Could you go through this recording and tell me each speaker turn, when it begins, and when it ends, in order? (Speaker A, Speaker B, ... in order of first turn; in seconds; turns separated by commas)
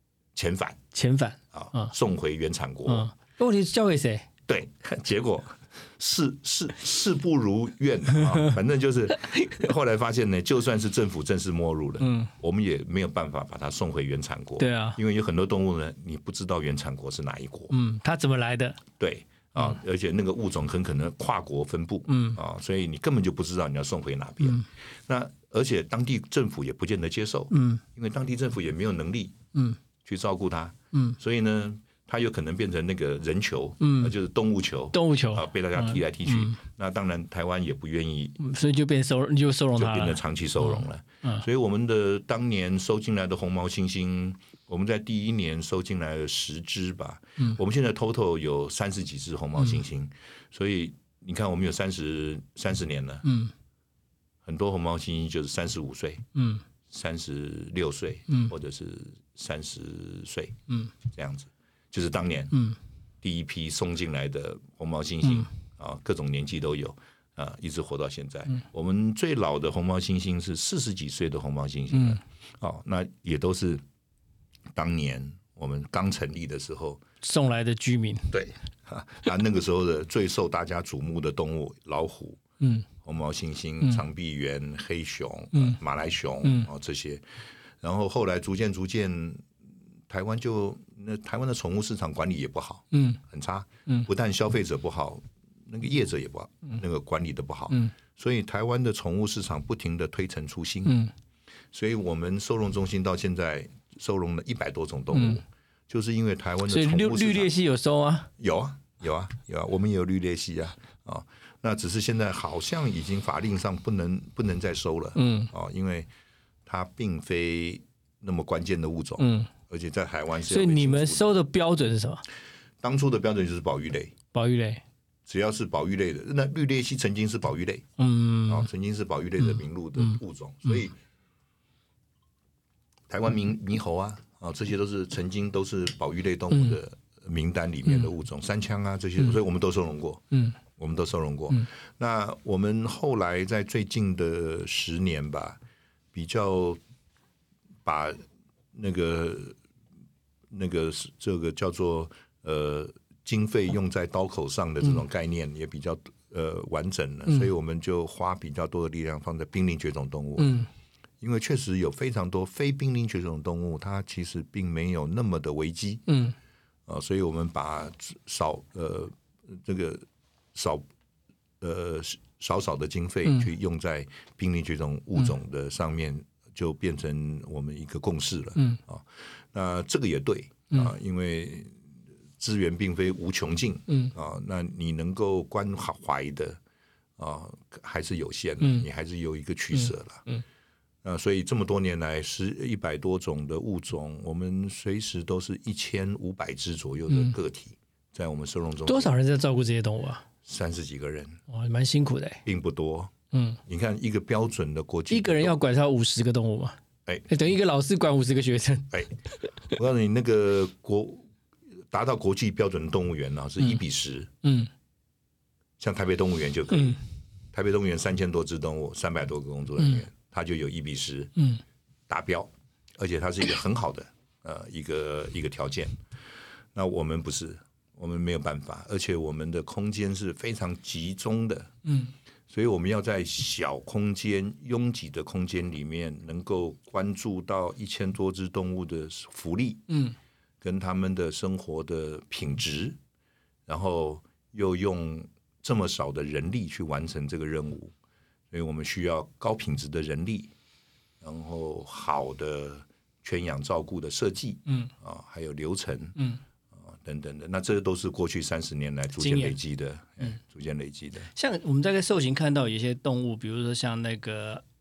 Speaker A: 0.3-0.8, Speaker B: 0.9-1.9, Speaker A: 1.5-3.1, Speaker B: 2.9-4.3, Speaker A: 4.5-17.7, Speaker B: 9.3-9.6, Speaker B: 12.0-12.3, Speaker B: 14.6-15.0, Speaker B: 17.7-18.8, Speaker A: 19.0-29.4, Speaker B: 22.1-22.4, Speaker B: 27.5-27.8, Speaker A: 30.1-38.4, Speaker B: 30.9-31.2, Speaker B: 33.8-34.1, Speaker B: 34.9-36.6, Speaker B: 38.4-41.5, Speaker A: 39.8-53.3, Speaker B: 53.2-53.5, Speaker A: 54.4-56.2, Speaker B: 56.4-56.6, Speaker A: 56.9-62.6, Speaker A: 63.2-73.8, Speaker A: 74.8-77.0, Speaker B: 77.2-78.3, Speaker A: 78.3-82.4, Speaker B: 82.6-82.9, Speaker A: 83.0-87.2, Speaker A: 87.8-89.5, Speaker A: 90.1-101.0, Speaker B: 92.9-93.2, Speaker B: 100.9-101.1, Speaker A: 101.7-107.5, Speaker B: 105.1-105.4, Speaker B: 106.7-108.3, Speaker A: 108.4-116.1, Speaker B: 115.2-115.5, Speaker A: 116.7-121.3, Speaker B: 119.2-119.5, Speaker B: 120.5-122.2, Speaker A: 122.8-124.1, Speaker B: 124.3-124.8, Speaker A: 125.3-127.9, Speaker B: 128.0-128.7, Speaker A: 128.5-130.9, Speaker A: 133.1-145.6, Speaker A: 146.1-146.8, Speaker A: 147.8-148.2, Speaker A: 148.7-149.6, Speaker A: 150.5-160.7, Speaker B: 160.4-160.7, Speaker A: 161.2-166.1, Speaker B: 166.1-166.3, Speaker A: 166.9-170.8, Speaker A: 171.6-181.7, Speaker A: 182.4-186.6, Speaker A: 187.2-190.2, Speaker B: 189.8-190.4, Speaker A: 191.0-199.1, Speaker B: 198.9-200.2, Speaker A: 200.4-201.4, Speaker B: 201.5-202.4, Speaker A: 202.4-203.1, Speaker B: 203.3-203.6, Speaker A: 203.7-205.6, Speaker B: 205.1-206.8, Speaker B: 207.3-209.0, Speaker A: 209.7-211.3, Speaker A: 211.9-214.3, Speaker B: 214.4-214.7, Speaker A: 215.8-217.0, Speaker B: 216.7-217.0, Speaker A: 217.5-221.3, Speaker A: 222.1-226.0, Speaker A: 226.8-231.7, Speaker B: 231.8-232.1, Speaker A: 232.5-239.8, Speaker B: 239.9-240.2, Speaker A: 240.6-243.0, Speaker A: 243.7-247.9, Speaker A: 248.5-250.5, Speaker A: 251.2-256.2, Speaker B: 254.7-254.9, Speaker A: 256.8-261.3, Speaker B: 259.2-259.6, Speaker B: 261.3-264.6